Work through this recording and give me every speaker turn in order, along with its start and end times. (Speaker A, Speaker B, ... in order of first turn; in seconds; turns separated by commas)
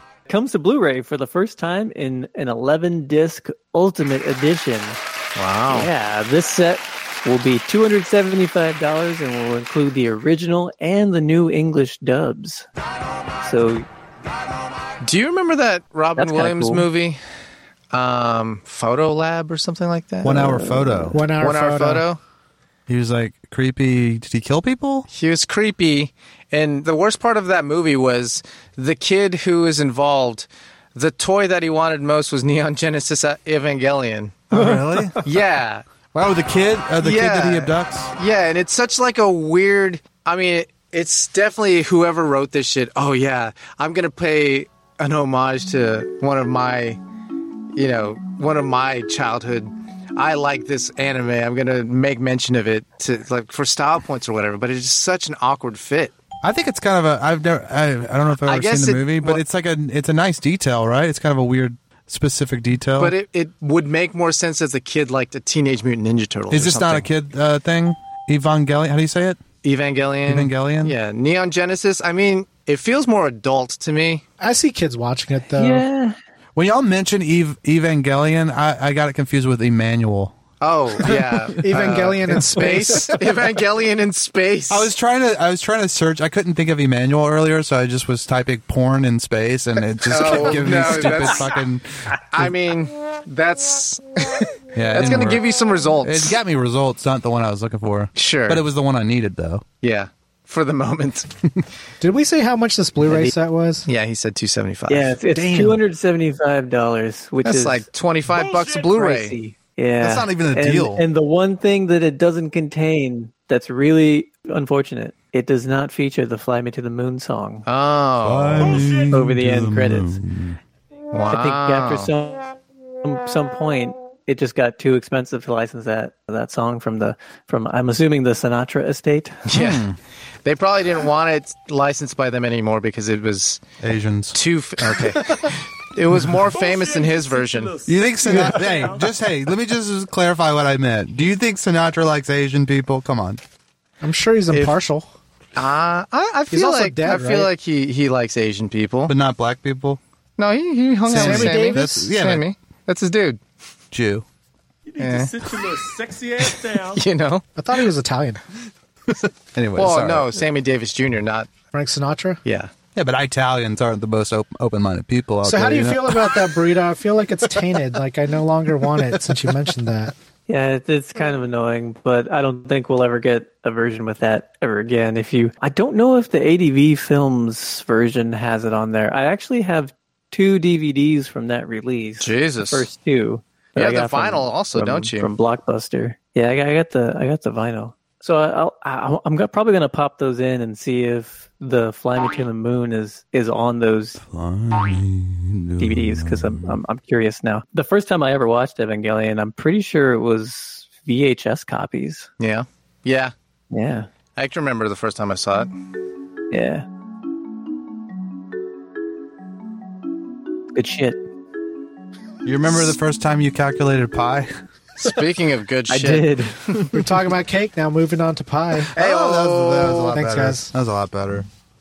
Speaker A: 0.3-5.0, Speaker B: 5.4-5.9, Speaker A: 5.7-12.7, Speaker A: 13.4-13.9, Speaker B: 15.0-17.2, Speaker A: 16.2-16.9, Speaker B: 17.9-20.6, Speaker C: 20.2-21.2, Speaker A: 20.3-21.2, Speaker D: 21.1-22.1, Speaker B: 21.4-22.2, Speaker C: 22.9-25.1, Speaker B: 25.1-34.7, Speaker C: 34.5-35.2, Speaker A: 34.5-35.2, Speaker B: 35.2-35.9, Speaker C: 36.1-38.1, Speaker B: 37.0-47.0, Speaker B: 47.7-56.1, Speaker C: 56.4-63.1, Speaker B: 58.4-59.4, Speaker B: 63.0-67.1, Speaker C: 66.5-69.4, Speaker B: 69.6-74.2, Speaker C: 70.3-71.0, Speaker D: 74.4-75.8, Speaker A: 75.5-76.2, Speaker C: 76.5-80.4, Speaker B: 80.6-84.9, Speaker C: 81.0-82.0, Speaker D: 81.6-83.3, Speaker C: 84.7-92.5, Speaker B: 90.1-91.6, Speaker B: 92.3-96.4, Speaker C: 94.8-95.4, Speaker C: 96.0-99.6, Speaker B: 98.2-98.7, Speaker B: 99.8-101.3, Speaker D: 102.0-103.9, Speaker B: 103.9-105.2, Speaker A: 104.9-107.9, Speaker C: 105.3-105.8, Speaker B: 107.4-109.4, Speaker E: 108.3-108.8, Speaker A: 108.8-117.7, Speaker C: 110.0-111.0, Speaker B: 117.7-118.9, Speaker C: 118.2-120.6, Speaker E: 118.6-119.1, Speaker A: 119.1-120.2, Speaker B: 121.1-122.1, Speaker A: 121.3-122.5, Speaker A: 123.0-129.5, Speaker B: 129.5-129.9, Speaker C: 129.5-130.0, Speaker B: 130.4-133.6, Speaker C: 133.8-134.4, Speaker B: 134.3-137.8, Speaker E: 136.5-139.2, Speaker C: 137.9-143.4, Speaker D: 144.0-145.1, Speaker B: 145.6-149.1, Speaker D: 146.5-147.5, Speaker C: 149.1-150.0, Speaker B: 150.4-153.4, Speaker C: 151.1-152.4, Speaker D: 151.2-152.0, Speaker C: 153.9-154.2, Speaker E: 154.9-157.0, Speaker B: 155.0-155.4, Speaker B: 156.4-157.5, Speaker D: 157.6-158.4, Speaker C: 159.1-160.3, Speaker B: 159.8-161.5, Speaker D: 161.7-162.4, Speaker B: 162.4-162.7, Speaker C: 162.9-166.5, Speaker D: 165.4-170.2, Speaker A: 170.5-194.2, Speaker B: 182.2-182.9, Speaker B: 183.8-185.3, Speaker C: 194.2-196.8, Speaker A: 195.8-202.3, Speaker B: 202.4-203.3, Speaker A: 203.7-204.1, Speaker B: 204.4-205.7, Speaker A: 206.5-206.9, Speaker A: 210.8-211.2, Speaker C: 212.4-214.5, Speaker B: 215.0-216.9, Speaker A: 215.9-216.6, Speaker D: 216.9-218.9, Speaker C: 218.9-221.5, Speaker B: 218.9-220.2, Speaker D: 220.1-220.7